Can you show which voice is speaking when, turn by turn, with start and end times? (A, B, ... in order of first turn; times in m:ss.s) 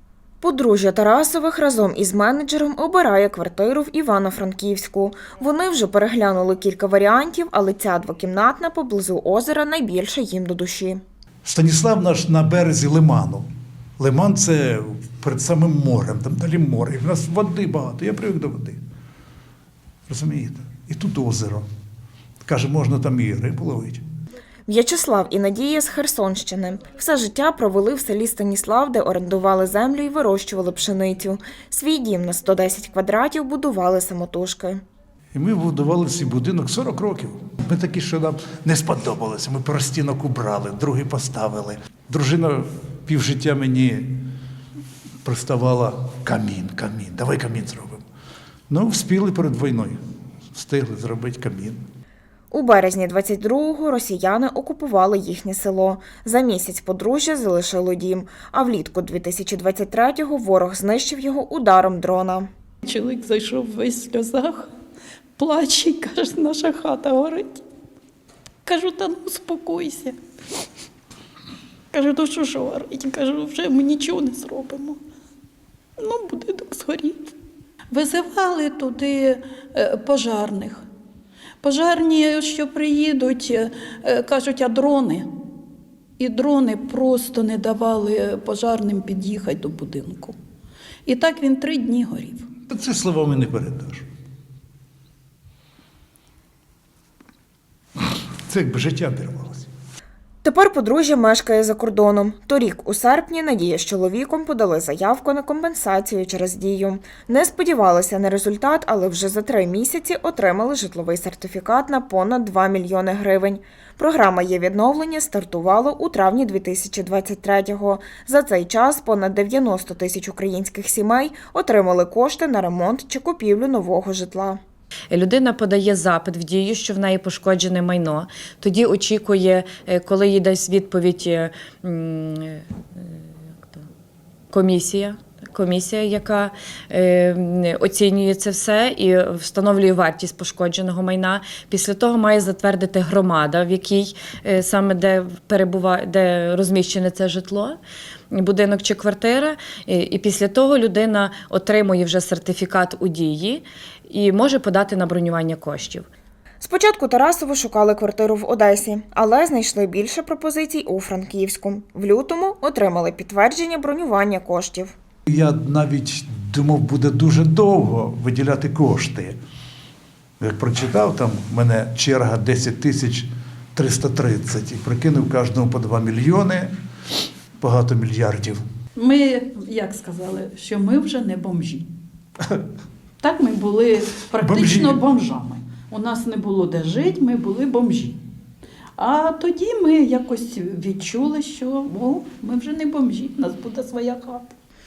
0:00.4-0:11.0 A
0:11.4-0:13.5 B
0:14.0-0:18.8 B
0:20.1-0:21.6 B
0:22.4-0:24.0 B
0:24.7-0:34.8 A
0:35.3-0:44.3 B
0:45.2-0:48.0 B
0:48.7-0:50.0 B
0:50.5-0:51.8 B
0:52.5-1:02.5 A
1:02.8-1:04.7 C
1:05.4-1:07.6 C
1:08.6-1:10.2 C
1:11.9-1:15.0 C
1:16.0-1:17.3 C
1:17.9-1:20.8 C
1:21.6-1:25.3 C
1:26.2-1:30.4 C
1:31.0-1:32.5 C
1:32.7-1:34.0 B
1:38.5-1:39.7 B
1:40.4-2:04.6 A
2:05.1-2:13.9 D
2:14.5-2:27.8 D
2:28.3-2:36.1 D
2:36.6-2:44.9 A
2:45.3-2:49.4 B
2:50.4-2:56.7 B
2:57.6-2:58.6 B
2:59.0-3:01.9 C
3:03.2-3:08.2 C
3:04.4-3:05.0 B
3:09.0-3:14.5 C